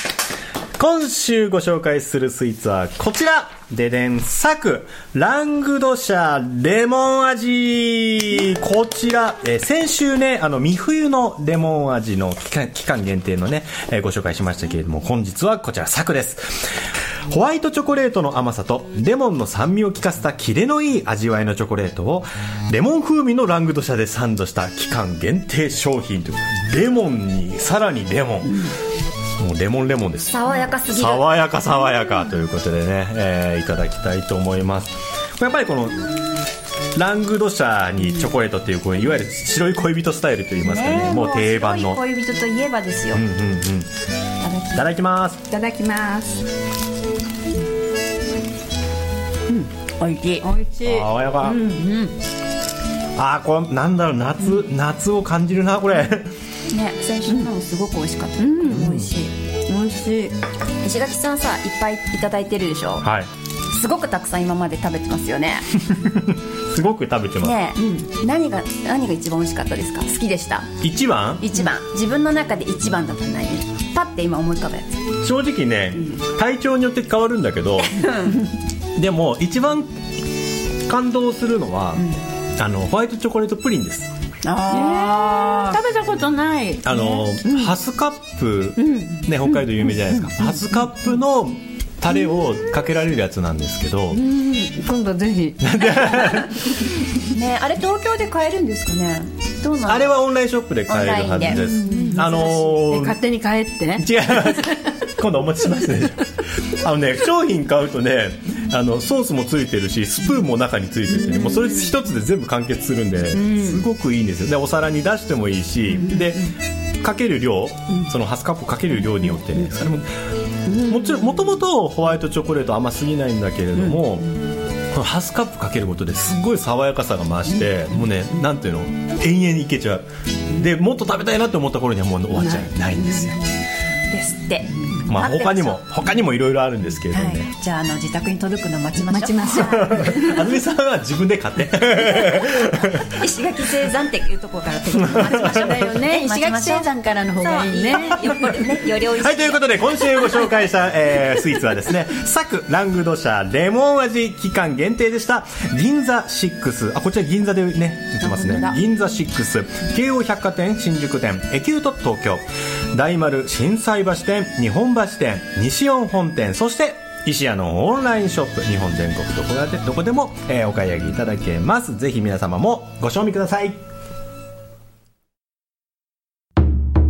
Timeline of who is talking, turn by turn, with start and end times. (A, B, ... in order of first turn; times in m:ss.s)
0:00.8-0:16.7 A
0:17.3-0:28.7 A
0:29.4-0:36.1 A
0:30.3-0:31.2 B
0:37.0-0:42.0 A
0:40.6-0:43.2 B
0:43.1-0:43.9 A
0:44.4-0:44.8 B
0:44.8-0:45.4 A
0:45.5-0:46.4 C
0:49.5-0:52.1 C
0:50.8-0:51.7 A
0:53.2-0:56.3 A
0:56.7-0:59.3 B
0:58.4-0:58.9 C
0:58.7-0:59.1 A
0:59.7-1:00.3 C
1:00.8-1:03.0 B
1:03.0-1:03.3 A
1:03.7-1:05.7 B
1:05.8-1:07.6 A
1:07.4-1:10.7 B
1:07.8-1:08.1 C
1:10.8-1:11.5 A
1:11.4-1:15.0 B
1:15.2-1:18.1 A
1:17.8-1:18.4 B
1:19.0-1:20.0 A
1:20.9-1:24.1 A
1:24.4-1:25.8 B
1:24.7-1:27.7 C
1:26.8-1:34.2 A
1:28.8-1:30.6 C
1:34.1-1:36.4 C
1:35.6-1:36.8 A
1:37.3-1:40.2 B
1:39.9-1:43.2 A
1:40.9-1:42.7 B
1:41.7-1:44.8 C
1:44.0-2:00.1 A
1:53.3-1:53.8 C
2:00.7-2:04.3 A
2:04.9-2:13.4 A
2:12.4-2:13.4 C
2:14.1-2:15.8 B
2:15.1-2:17.5 A
2:17.1-2:20.2 B
2:19.1-2:20.5 C
2:19.6-2:23.2 A
2:23.1-2:26.9 B
2:25.1-2:28.4 C
2:27.4-2:30.4 B
2:29.1-2:53.8 A
2:38.2-2:38.8 B